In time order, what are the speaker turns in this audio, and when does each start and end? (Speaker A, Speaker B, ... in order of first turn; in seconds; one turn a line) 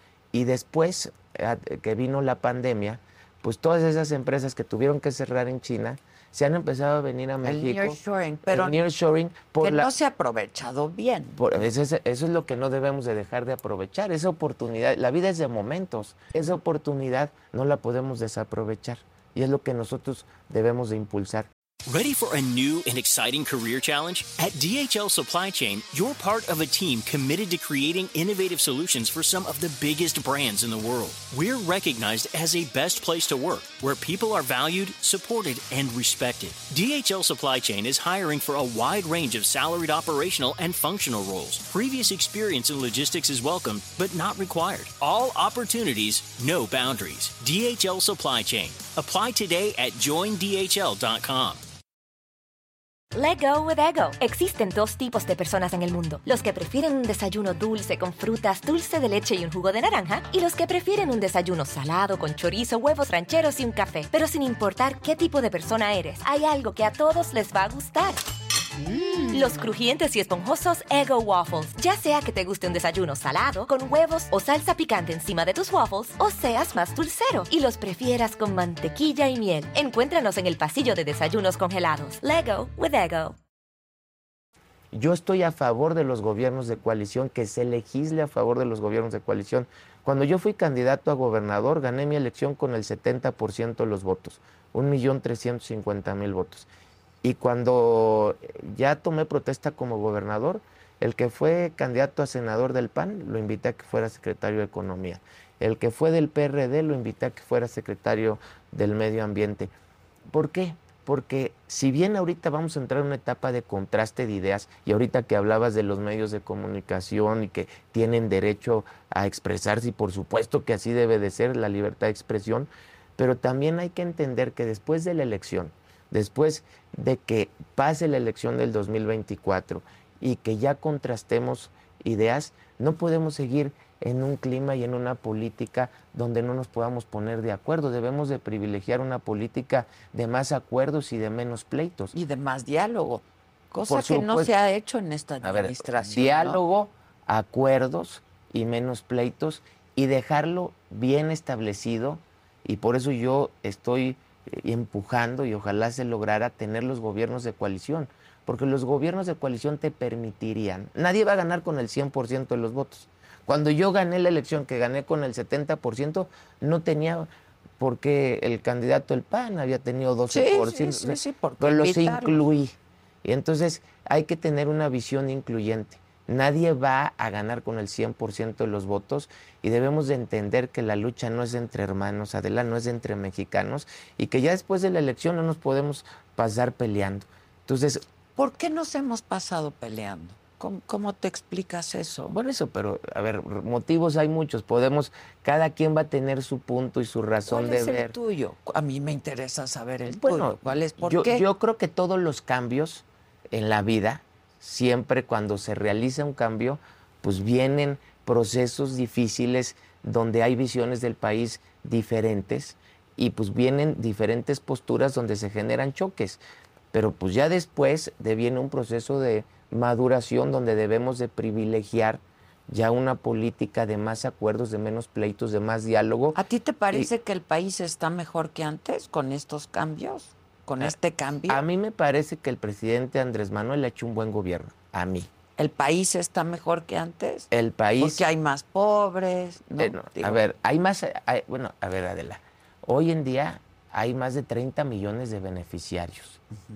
Speaker A: 0.3-9.9
Speaker B: 7.4-8.8
Speaker B: 9.6-11.4
Speaker A: 11.4-21.5
Speaker C: 21.9-51.6
Speaker D: 53.1-68.2
Speaker D: 69.0-83.3
Speaker A: 84.9-96.7
Speaker A: 97.2-109.7
Speaker A: 110.3-142.1
Speaker B: 142.1-146.6
Speaker A: 143.9-144.5
Speaker A: 145.4-188.0
Speaker B: 170.3-172.4
Speaker B: 188.3-192.3
Speaker A: 192.3-198.1
Speaker B: 197.5-201.4
Speaker A: 200.1-216.4
Speaker A: 216.9-226.4
Speaker B: 226.3-231.6
Speaker A: 231.5-235.3
Speaker B: 235.6-237.5
Speaker A: 237.5-238.3
Speaker B: 238.0-240.4
Speaker A: 239.8-246.4